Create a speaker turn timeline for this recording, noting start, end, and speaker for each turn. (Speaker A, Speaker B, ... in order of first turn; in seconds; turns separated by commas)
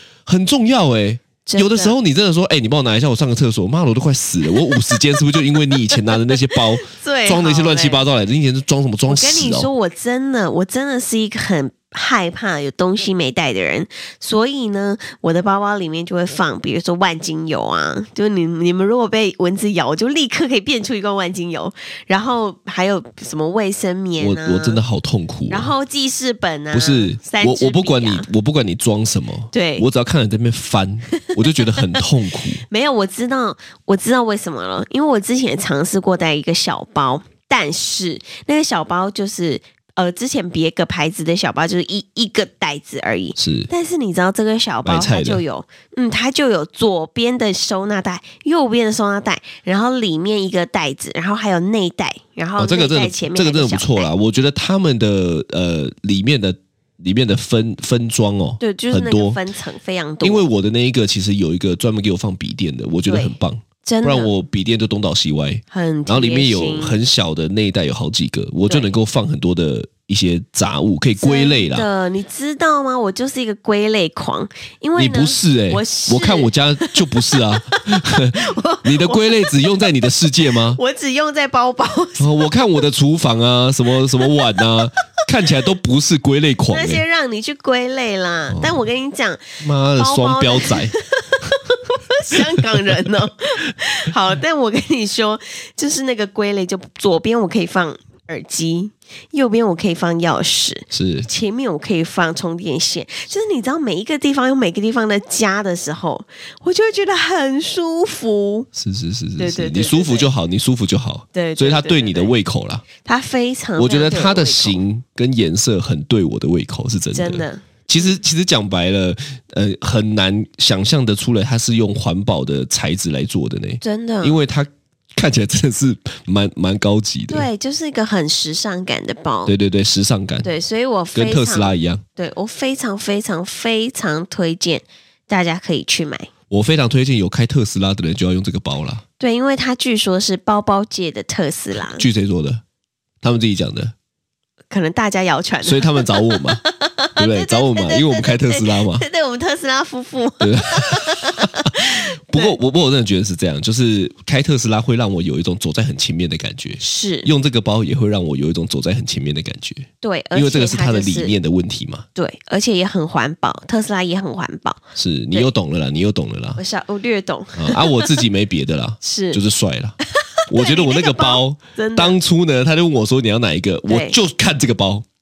Speaker A: 0.2-9.7, Speaker B: 1.4-1.9, Speaker B: 6.5-8.1, Speaker B: 9.1-24.8, Speaker A: 24.2-25.7, Speaker B: 25.5-28.3, Speaker A: 26.7-32.6, Speaker B: 29.5-29.9, Speaker B: 31.1-32.0, Speaker B: 32.7-54.1, Speaker A: 43.4-43.7, Speaker A: 44.8-45.4, Speaker A: 52.6-59.4, Speaker B: 58.6-60.5, Speaker A: 60.2-71.8, Speaker B: 63.1-64.3, Speaker B: 65.7-67.0, Speaker B: 71.2-79.8, Speaker A: 75.0-80.8, Speaker B: 80.7-82.3, Speaker A: 82.2-87.0, Speaker B: 86.7-108.7, Speaker A: 88.5-88.8, Speaker A: 89.6-90.9, Speaker A: 92.4-92.8, Speaker A: 100.9-101.3, Speaker A: 108.7-112.8, Speaker B: 109.4-110.3, Speaker B: 111.3-112.3, Speaker B: 113.0-114.8, Speaker A: 113.8-127.5, Speaker B: 117.1-117.6, Speaker B: 123.8-124.4, Speaker B: 127.3-129.5, Speaker A: 129.5-130.5, Speaker B: 130.4-136.3, Speaker A: 131.1-132.0, Speaker A: 136.5-139.0, Speaker B: 139.2-142.1, Speaker A: 141.9-142.6, Speaker A: 143.2-143.9, Speaker B: 144.7-152.6, Speaker A: 145.6-146.6, Speaker A: 147.2-149.0, Speaker A: 150.4-162.1, Speaker B: 156.8-157.3, Speaker B: 160.0-161.3, Speaker B: 162.2-164.8, Speaker A: 165.0-166.6, Speaker B: 166.6-168.1, Speaker A: 167.5-170.0, Speaker B: 169.0-169.4, Speaker B: 170.4-172.2, Speaker A: 170.5-175.1, Speaker B: 173.9-174.2